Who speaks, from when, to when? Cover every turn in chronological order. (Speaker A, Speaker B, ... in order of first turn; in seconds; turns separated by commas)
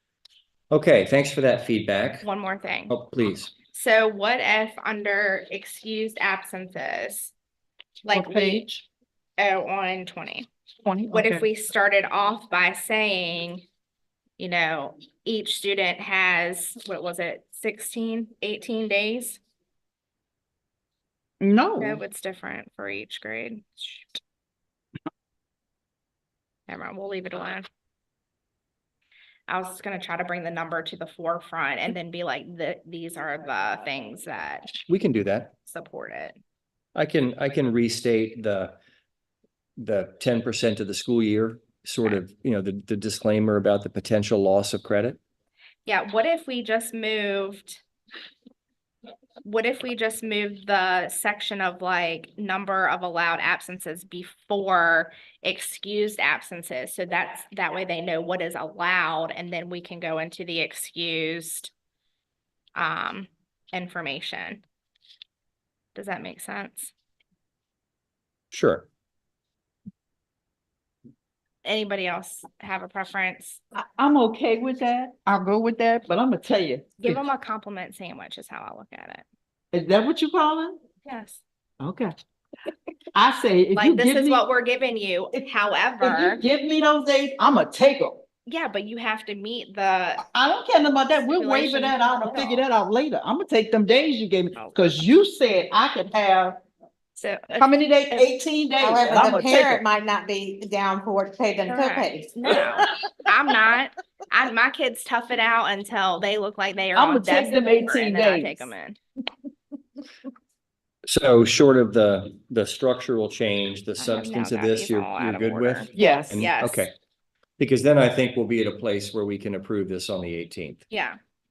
Speaker A: 0.7-2.3, Speaker B: 2.2-2.9, Speaker A: 2.9-3.5, Speaker B: 3.7-7.3, Speaker B: 8.1-8.7, Speaker C: 8.1-8.8, Speaker B: 9.4-10.5, Speaker C: 10.8-11.5, Speaker B: 11.1-13.6, Speaker B: 14.4-19.4, Speaker C: 21.4-22.0, Speaker B: 21.8-24.2, Speaker B: 26.7-27.7, Speaker B: 29.5-34.7, Speaker A: 34.9-35.5, Speaker B: 35.7-36.4, Speaker A: 37.0-38.8, Speaker A: 39.8-45.2, Speaker B: 45.9-47.8, Speaker B: 49.4-61.7, Speaker B: 62.8-64.6, Speaker B: 66.0-66.9, Speaker A: 68.5-68.9, Speaker B: 71.6-73.6, Speaker C: 73.7-77.2, Speaker B: 77.0-79.2, Speaker C: 79.7-80.8, Speaker B: 81.0-81.4, Speaker C: 81.8-82.2, Speaker C: 83.1-84.4, Speaker B: 83.7-86.4, Speaker C: 86.0-88.2, Speaker B: 88.5-90.3, Speaker C: 90.2-96.6, Speaker B: 91.2-92.6, Speaker B: 94.5-95.1, Speaker B: 97.2-98.3, Speaker C: 97.6-99.8, Speaker D: 98.8-102.3, Speaker B: 101.7-109.0, Speaker C: 106.9-108.7, Speaker A: 111.1-116.9, Speaker B: 114.0-116.9, Speaker C: 116.0-116.3, Speaker A: 117.6-120.8, Speaker B: 120.9-121.2